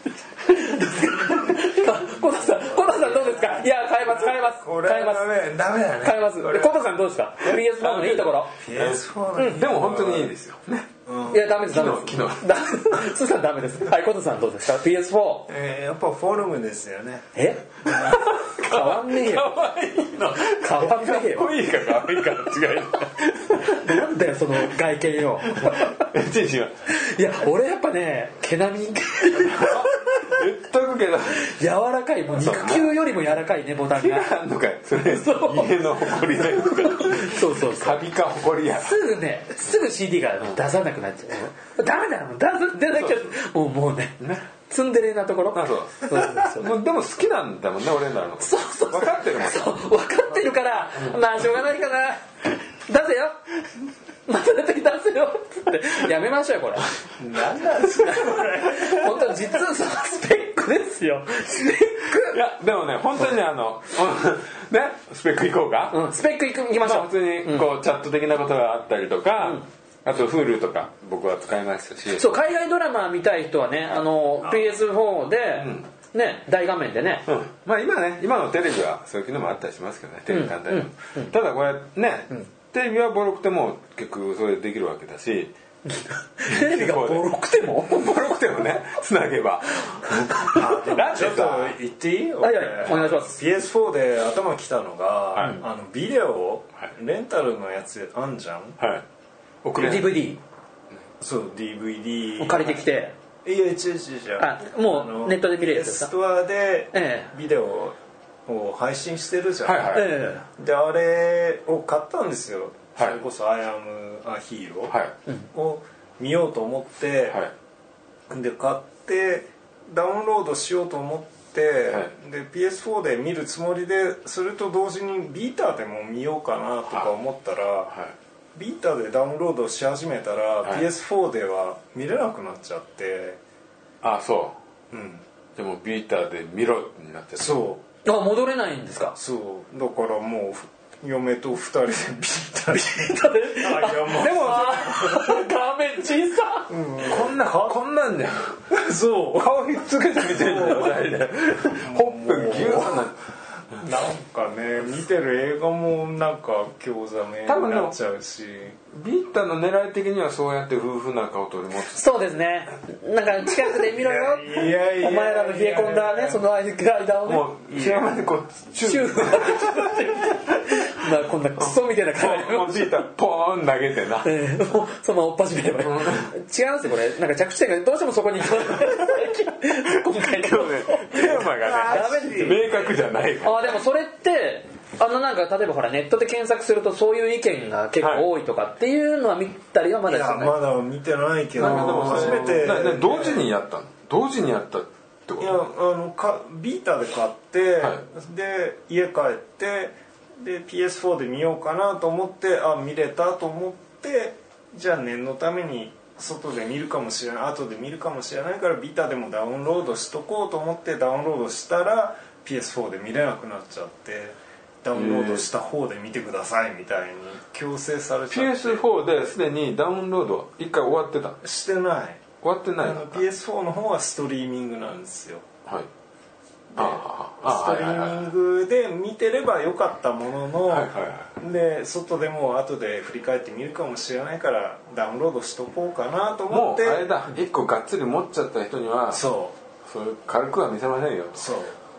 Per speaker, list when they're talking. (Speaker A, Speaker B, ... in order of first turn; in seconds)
Speaker A: 0.4-5.3, 6.0-8.5, 11.3-15.5, 17.3-19.5, 20.1-21.5, 23.6-26.1, 26.9-30.4, 31.3-34.3, 35.0-35.8, 36.5-38.0, 38.8-46.7, 48.4-53.4, 54.2-56.9, 58.0-62.4, 65.9-67.7, 72.2-77.2, 80.3-81.3, 85.8-88.1, 92.4-93.4, 99.8-100.4, 102.4-103.1, 104.4-106.1, 106.9-107.3, 109.9-110.4, 138.0-139.2, 142.7-146.7, 161.8-168.0, 168.8-173.0, 174.2-182.7, 183.4-190.6, 191.6-192.8
Speaker B: 2.5-3.6, 4.4-6.8, 8.6-10.3, 11.1-11.5, 15.5-17.3, 57.2-59.3, 74.4-74.7, 90.5-98.8, 101.2-102.8, 103.4-114.9, 115.5-117.4, 118.3-127.9, 128.5-133.4, 134.9-135.2, 137.3-137.8, 139.2-145.2, 146.7-147.8, 148.7-149.6, 150.2-151.1, 151.8-153.1, 153.8-158.8, 163.8-166.4, 181.2-182.9, 190.1-193.5, 195.4-218.8, 221.4-222.2, 222.8-225.4, 226.7-237.1, 239.1-239.6, 241.3-241.8
Speaker C: 7.4-10.9, 11.7-12.5, 17.9-24.0, 25.5-26.7, 29.4-31.5, 32.4-33.1, 33.9-39.0, 45.5-49.8, 62.1-66.0, 66.8-72.3, 75.6-75.9, 77.3-85.5, 86.5-91.7, 98.8-99.0, 99.6-100.2, 109.6-110.2, 114.9-115.1, 134.0-134.6, 135.6-137.6, 144.1-145.4, 147.0-148.8, 149.3-153.2, 157.4-157.9, 158.9-162.0, 167.2-170.3, 171.6-174.3, 175.8-176.3, 180.0-183.8, 188.0-188.3, 191.6-195.6, 214.9-215.4, 218.3-221.4, 222.4-223.2, 226.8-228.3, 230.7-231.3, 236.5-239.2, 239.8-241.5